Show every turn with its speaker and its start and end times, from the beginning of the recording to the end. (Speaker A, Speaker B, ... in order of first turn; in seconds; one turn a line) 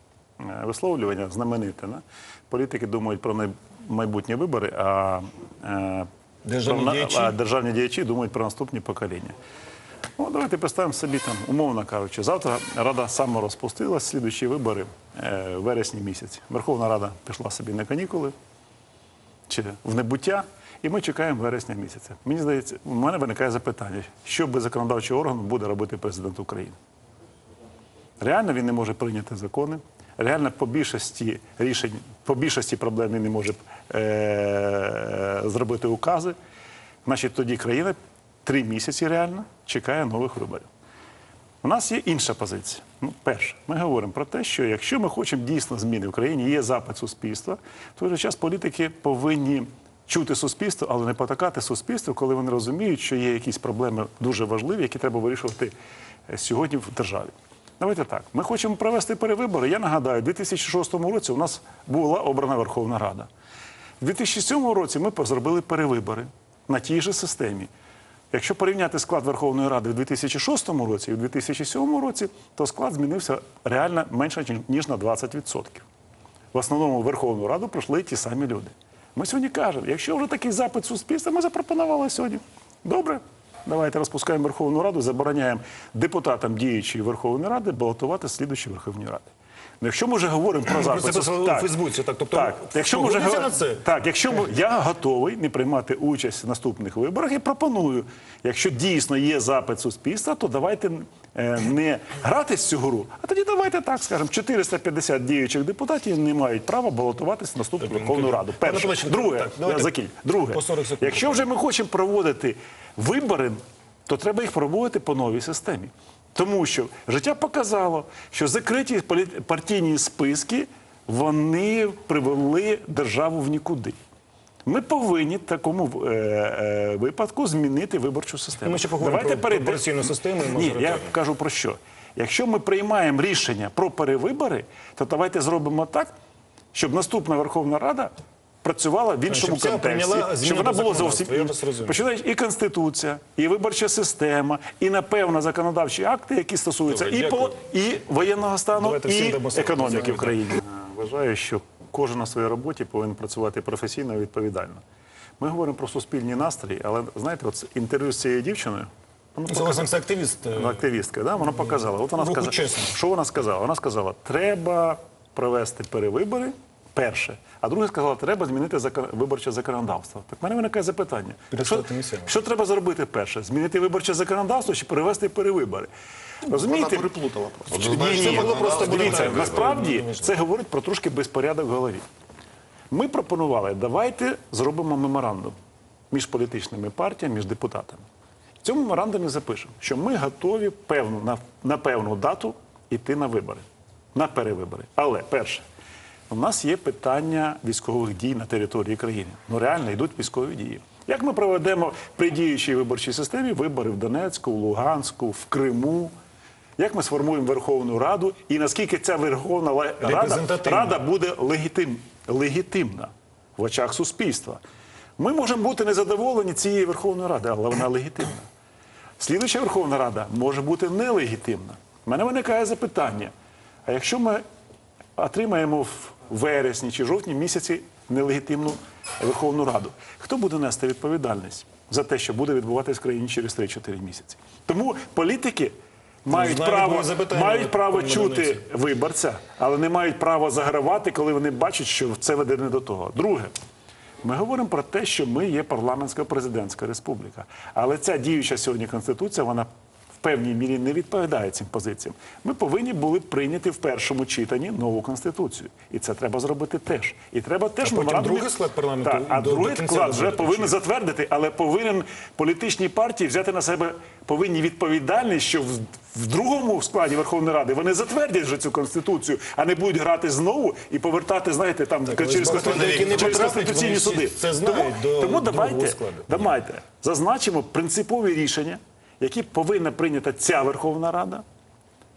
Speaker A: 0.4-6.1
Speaker B: 6.5-7.3
Speaker A: 6.7-9.4
Speaker A: 10.2-18.4
Speaker A: 19.5-26.8
Speaker A: 28.2-36.4
Speaker A: 37.0-40.7
Speaker A: 41.6-55.7
Speaker A: 56.3-63.3
Speaker A: 64.0-67.7
Speaker A: 68.3-75.9
Speaker A: 76.5-91.7
Speaker B: 90.7-93.8
Speaker A: 92.3-124.0
Speaker B: 107.8-109.9
Speaker B: 110.5-111.5
Speaker A: 124.7-129.9
Speaker B: 128.6-131.1
Speaker A: 130.4-136.1
Speaker A: 136.7-154.8
Speaker B: 139.3-142.0
Speaker B: 146.9-147.5
Speaker B: 148.7-150.4
Speaker A: 155.4-159.9
Speaker B: 159.5-160.9
Speaker A: 160.5-175.9
Speaker B: 161.5-162.9
Speaker B: 171.5-172.3
Speaker A: 176.4-177.1
Speaker C: 176.5-179.6
Speaker B: 177.7-180.3
Speaker A: 177.7-182.1
Speaker A: 182.9-185.6
Speaker A: 186.1-188.0
Speaker A: 188.6-195.7
Speaker A: 196.3-206.1
Speaker A: 206.8-214.6
Speaker B: 210.0-210.9
Speaker A: 215.2-218.5
Speaker A: 219.2-223.3
Speaker A: 223.9-224.4
Speaker A: 225.2-243.5
Speaker B: 236.3-238.6
Speaker A: 244.2-249.7
Speaker A: 250.2-281.4
Speaker B: 257.8-260.8
Speaker B: 272.1-276.6
Speaker C: 272.4-273.8